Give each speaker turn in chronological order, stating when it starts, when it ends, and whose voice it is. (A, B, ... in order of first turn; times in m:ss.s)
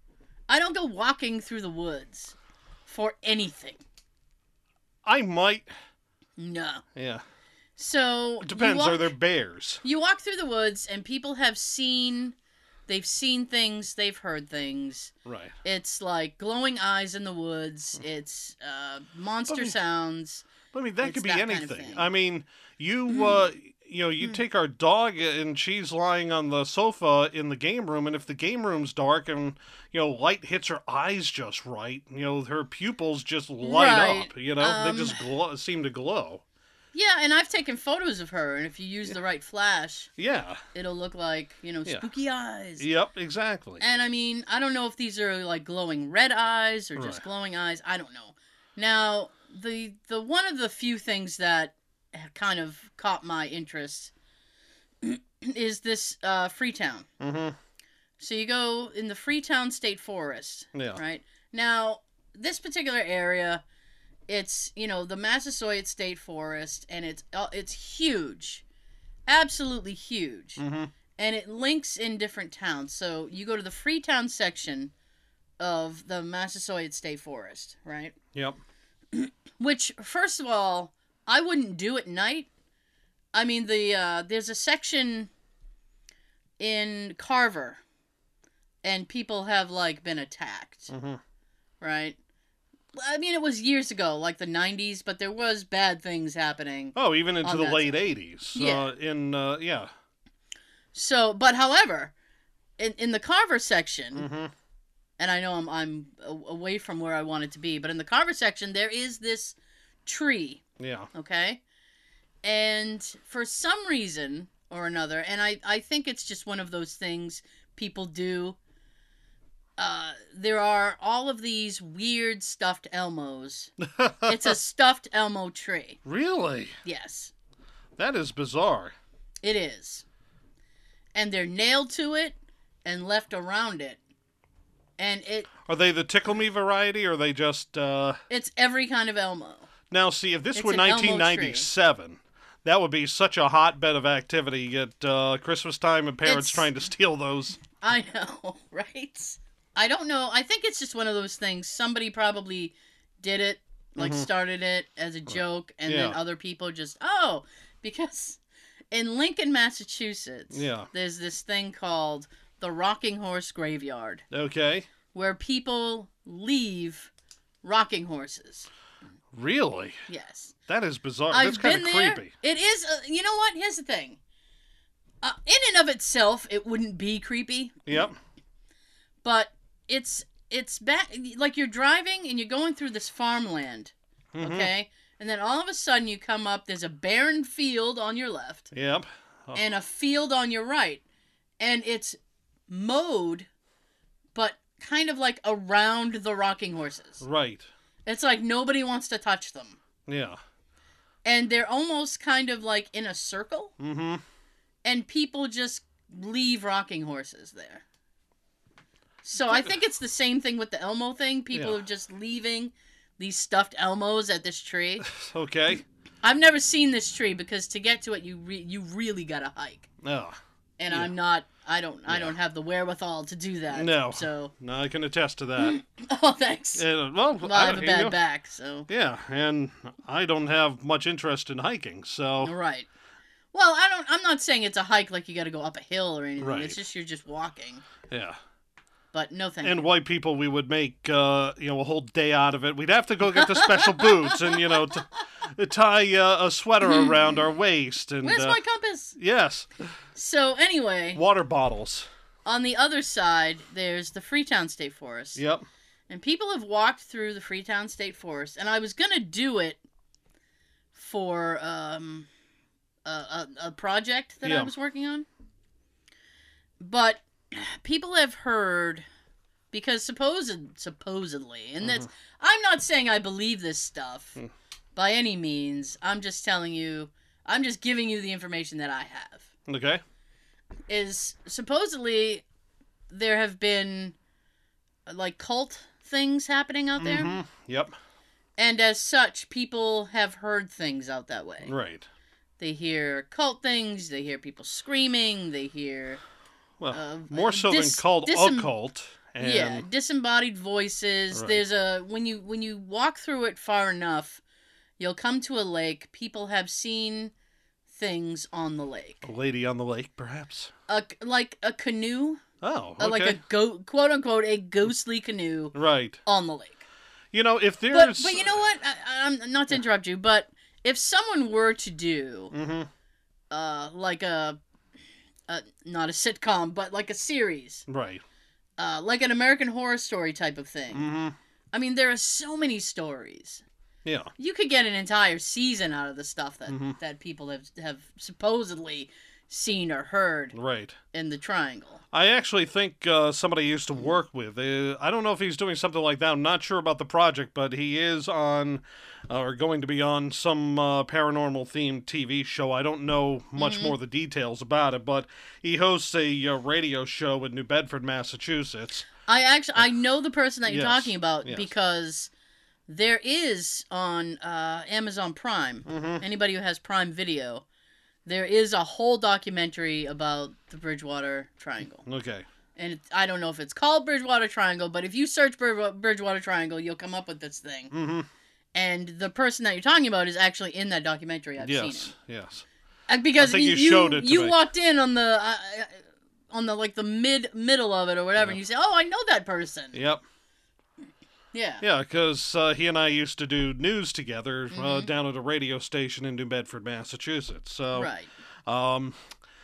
0:00.5-0:03.8 A
0:05.0-0:05.7 B
0:06.4-0:06.8 A
0:07.0-0:07.2 B
0:07.8-0:09.1 A
0:08.4-0:09.8 B
0:09.8-0:12.3 A
0:12.9-0:15.1 A
0:15.2-0:15.6 B
0:15.6-0:20.5 A
0:19.5-0:19.8 B
0:20.7-0:36.4 B
0:21.0-0:22.0 A
0:33.6-0:35.2 A
0:36.9-0:40.1 A
0:40.2-0:40.6 B
0:40.7-0:42.8 A
0:42.8-0:43.8 B
0:43.8-0:54.1 A
0:47.0-0:47.2 B
0:55.0-0:57.1 A
0:57.2-0:57.6 B
0:58.2-1:03.6 A
1:00.7-1:01.0 B
1:04.3-1:08.6 A
1:09.3-1:10.6 A
1:10.6-1:10.9 B
1:11.2-1:14.9 A
1:15.6-1:18.1 A
1:19.1-1:22.5 A
1:23.3-1:25.3 A
1:26.6-1:27.8 A
1:28.8-1:30.9 A
1:30.9-1:31.2 B
1:31.8-1:32.2 A
1:32.9-1:38.0 A
1:36.9-1:39.9 B
1:38.5-1:38.9 A
1:40.9-1:42.1 A
1:42.8-1:44.3 A
1:44.2-1:44.5 B
1:45.2-1:50.6 A
1:50.8-1:51.1 B
1:51.1-1:51.6 A
1:52.4-1:58.6 A
1:59.8-2:03.7 A
2:03.8-2:04.5 B
2:04.2-2:06.0 A
2:06.0-2:06.8 B
2:06.8-2:07.3 A
2:08.0-2:08.9 B
2:09.4-2:10.0 A
2:11.1-2:14.0 A
2:15.0-2:15.5 A
2:15.6-2:18.2 B
2:18.3-2:19.7 A
2:19.9-2:27.6 B
2:20.5-2:21.7 A
2:26.2-2:26.7 A
2:27.8-2:38.4 A
2:34.0-2:34.3 B
2:35.8-2:36.2 B
2:38.9-2:44.2 A
2:40.5-2:40.9 B
2:44.3-2:44.9 B
2:45.1-2:47.1 A
2:47.6-2:48.7 A
2:49.3-2:50.0 B
2:50.1-2:50.5 A
2:50.7-2:52.3 B
2:51.3-2:54.2 A
2:55.2-2:58.0 A
2:57.9-2:58.2 B
2:59.2-3:08.7 A
3:04.3-3:04.7 B
3:08.7-3:09.6 B
3:09.5-3:11.0 A
3:11.6-3:12.2 A
3:12.7-3:13.5 A
3:14.3-3:17.2 A
3:17.2-3:17.7 B
3:18.0-3:19.8 A
3:20.1-3:20.4 B
3:21.2-3:23.7 A
3:23.8-3:24.2 B
3:24.8-3:27.8 A
3:29.2-3:35.1 A
3:31.5-3:31.8 B
3:35.1-3:35.8 B
3:36.2-3:39.9 A
3:40.0-3:40.4 B
3:40.8-3:44.5 A
3:42.1-3:42.3 B
3:43.7-3:45.8 B
3:45.6-3:46.8 A
3:46.7-3:48.2 B
3:47.4-3:48.9 A
3:48.9-3:52.5 B
3:52.4-3:52.9 A
3:53.5-3:57.8 A
3:56.4-3:56.8 B
3:58.1-3:58.4 B
3:59.1-3:59.8 A
3:59.6-4:08.6 B
4:03.3-4:04.8 A
4:06.8-4:07.1 A
4:08.2-4:09.2 A
4:09.2-4:09.7 B
4:10.1-4:11.2 A
4:11.1-4:12.1 B
4:12.4-4:15.4 A
4:15.4-4:15.6 B
4:16.1-4:19.8 A
4:20.9-4:22.3 A
4:23.0-4:25.2 A
4:24.4-4:24.7 B
4:26.8-4:29.0 A
4:29.7-4:34.4 A
4:34.9-4:39.5 A
4:39.7-4:40.0 B
4:40.9-4:42.4 A
4:43.1-4:44.1 A
4:45.1-4:47.4 A
4:47.0-4:47.9 B
4:48.6-4:51.7 A
4:51.6-4:52.1 B
4:52.6-4:56.2 A
4:56.8-4:59.8 B
4:56.9-4:58.7 A
4:59.4-5:04.4 A
5:01.3-5:01.6 B
5:05.0-5:07.3 A
5:07.9-5:09.2 A
5:09.2-5:10.7 B
5:10.9-5:12.4 A
5:12.6-5:13.4 B
5:13.0-5:16.8 A
5:15.7-5:16.2 B
5:17.3-5:18.6 B
5:17.9-5:22.5 A
5:22.5-5:22.9 B
5:23.5-5:24.6 A
5:25.5-5:27.8 A
5:27.9-5:28.2 B
5:28.8-5:31.1 A
5:30.9-5:31.4 B
5:31.7-5:33.6 A
5:34.0-5:34.3 B
5:34.4-5:40.5 A
5:36.7-5:37.0 B
5:40.5-5:41.0 B
5:41.1-5:42.0 A
5:42.1-5:59.1 B
5:53.6-5:53.9 A
5:59.2-6:02.3 A
6:00.7-6:01.7 B
6:02.9-6:07.6 A
6:05.8-6:06.2 B
6:08.2-6:12.0 A
6:12.0-6:12.4 B
6:12.8-6:17.9 A
6:17.9-6:18.3 B
6:18.7-6:22.1 A
6:21.6-6:22.6 B
6:23.1-6:30.0 A
6:23.4-6:24.6 B
6:29.9-6:30.2 B
6:31.5-6:31.8 A
6:31.8-6:38.1 B
6:34.7-6:35.1 A
6:37.9-6:38.3 A
6:38.6-6:39.2 B